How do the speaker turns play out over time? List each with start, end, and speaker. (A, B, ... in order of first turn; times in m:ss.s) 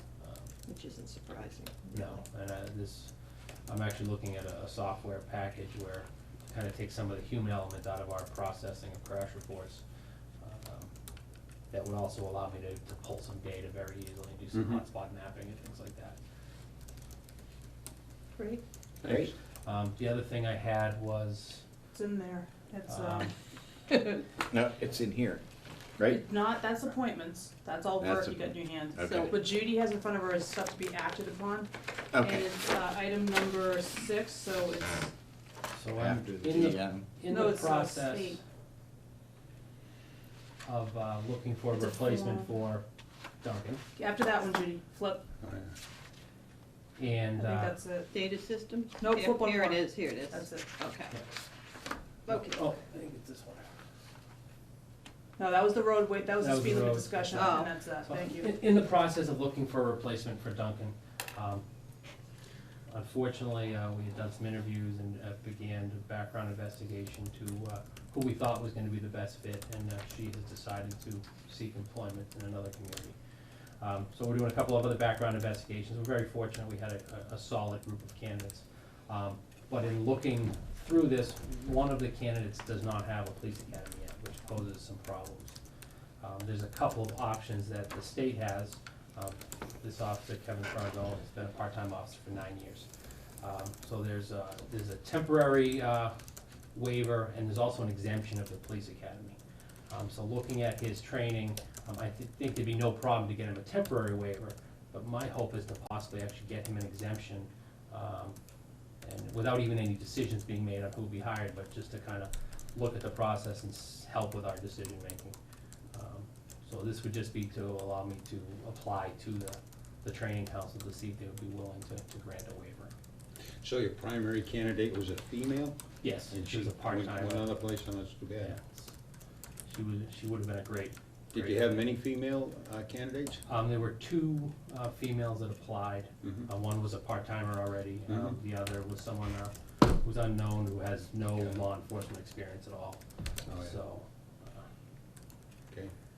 0:00.2-0:00.5 A
0:00.7-0:02.2 B
0:01.9-0:03.1 A
0:03.7-0:09.8 A
0:10.4-0:10.9 A
0:11.7-0:16.2 A
0:14.5-0:14.8 C
0:18.4-0:18.6 B
0:19.0-0:19.3 C
0:19.0-0:19.3 D
0:19.6-0:21.6 A
0:21.9-0:23.3 E
0:22.9-0:23.3 A
0:24.5-0:25.4 D
0:26.1-0:31.7 E
0:28.0-0:29.3 D
0:32.1-0:32.4 D
0:32.2-0:35.1 E
0:35.7-0:38.4 A
0:35.9-0:37.1 D
0:37.3-0:38.4 E
0:40.6-0:42.8 A
0:41.8-0:42.5 E
0:43.4-0:43.8 A
0:44.0-0:45.2 E
0:45.4-0:45.7 C
0:47.0-0:47.8 A
0:47.4-0:48.1 E
0:48.1-0:51.2 B
0:49.0-0:50.7 E
0:52.2-0:53.7 A
0:52.3-0:52.6 B
0:55.4-0:58.5 E
0:56.4-0:57.3 A
0:57.3-0:57.7 B
0:58.0-1:01.6 A
1:02.9-1:13.1 A
1:13.8-1:25.6 A
1:26.2-1:32.9 A
1:33.4-1:36.1 A
1:36.7-1:39.4 A
1:39.9-1:48.4 A
1:49.0-1:55.4 A
1:55.9-2:02.9 A
2:03.6-2:05.8 C
2:06.0-2:07.6 A
2:06.3-2:08.5 C
2:08.4-2:08.9 A
2:09.7-2:11.8 A
2:11.3-2:13.4 C
2:13.5-2:24.0 A
2:16.2-2:16.5 C
2:18.1-2:18.4 C
2:23.5-2:23.8 C